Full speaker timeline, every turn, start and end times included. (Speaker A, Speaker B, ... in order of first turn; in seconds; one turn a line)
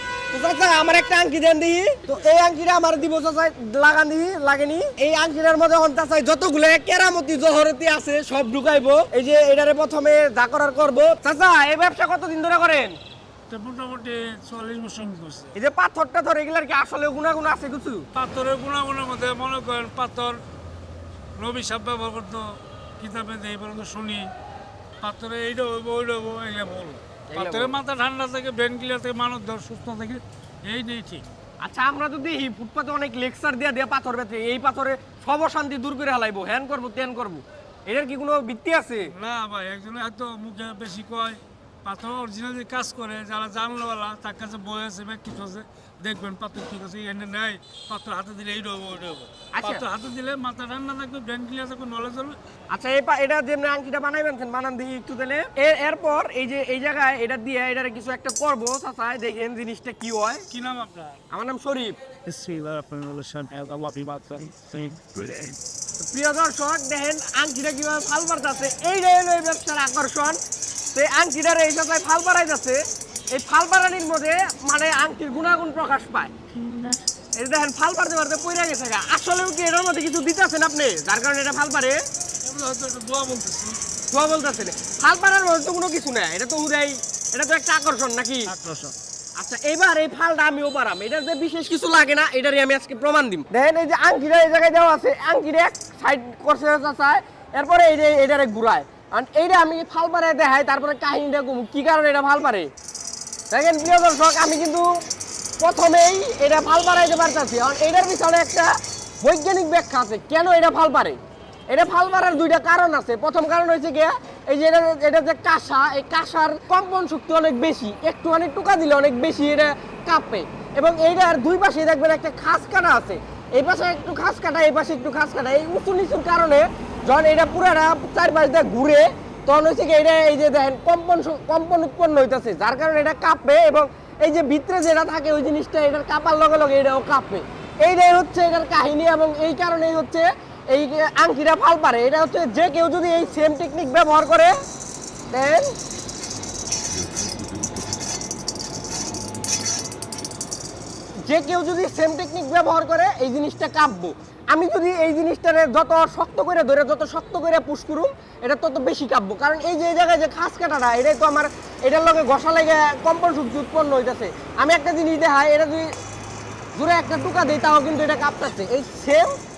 Speaker A: 0.3-12.9
Speaker B: 13.5-15.5
Speaker A: 15.5-18.1
Speaker B: 18.1-20.4
Speaker B: 21.4-24.3
Speaker B: 25.0-31.2
Speaker A: 27.3-27.8
Speaker A: 31.6-39.1
Speaker B: 39.1-52.4
Speaker A: 49.5-49.8
Speaker A: 52.7-60.5
Speaker B: 60.5-61.2
Speaker A: 61.3-62.0
Speaker B: 62.3-65.6
Speaker A: 66.0-70.4
Speaker A: 70.9-76.3
Speaker A: 77.4-82.0
Speaker B: 82.4-83.8
Speaker A: 84.1-88.5
Speaker B: 88.5-88.9
Speaker A: 89.4-102.7
Speaker A: 103.5-104.9
Speaker A: 105.6-111.2
Speaker A: 111.7-144.5
Speaker A: 145.3-145.7
Speaker A: 151.2-165.9
Speaker A: 166.8-169.3